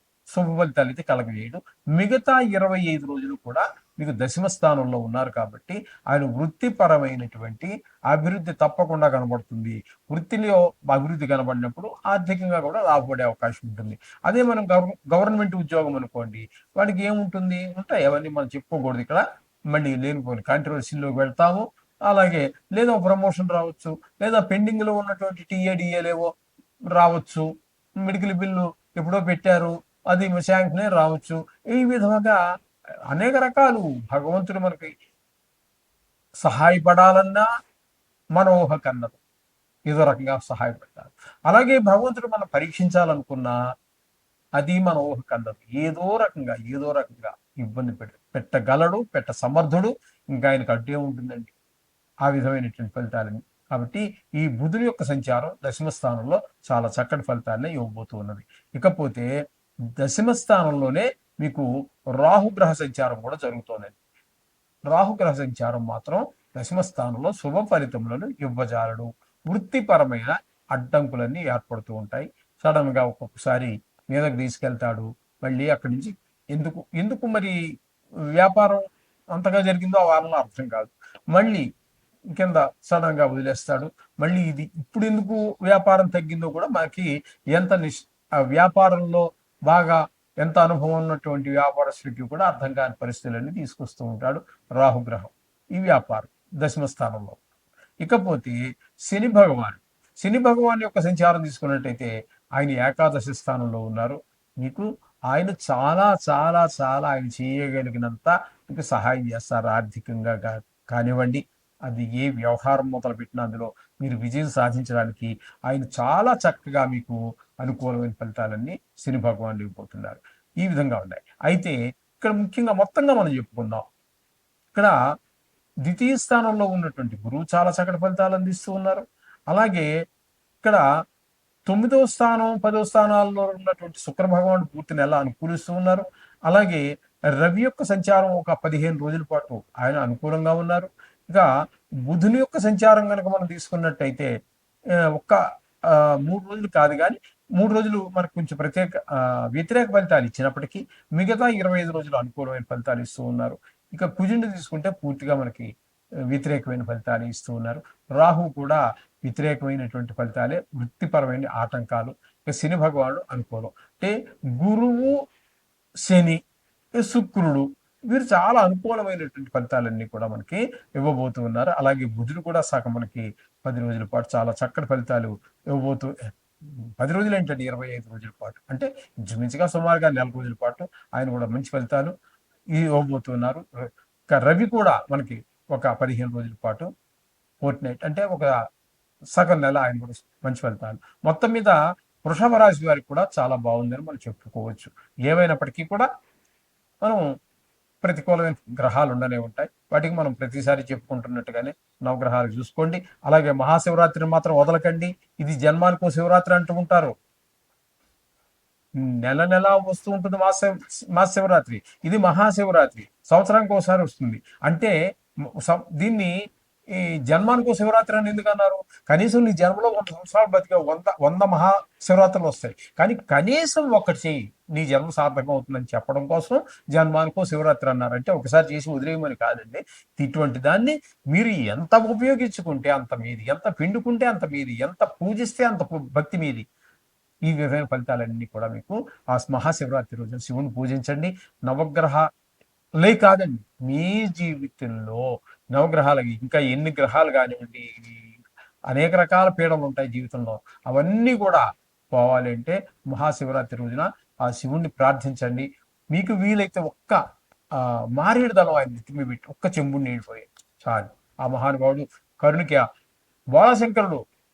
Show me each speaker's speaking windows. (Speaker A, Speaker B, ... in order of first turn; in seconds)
Speaker A: 0.3-26.3, 26.9-27.4, 28.0-32.4, 33.1-34.9, 36.4-37.5, 38.4-39.2, 39.9-43.5, 44.6-51.5, 52.2-59.3, 60.0-64.0, 64.9-77.6, 78.3-81.6, 82.3-97.4, 98.0-123.8, 125.8-129.9, 131.7-136.8, 137.3-141.5, 142.1-144.3, 145.1-155.7, 156.3-165.1, 166.1-166.4, 167.0-176.1, 176.7-182.1, 182.8-183.6, 184.3-186.9, 187.6-188.5, 189.3-196.1, 198.0-207.1, 209.0-214.9, 215.6-216.3, 216.9-236.6, 237.5-242.2, 243.0-257.2, 257.7-262.8, 263.5-264.2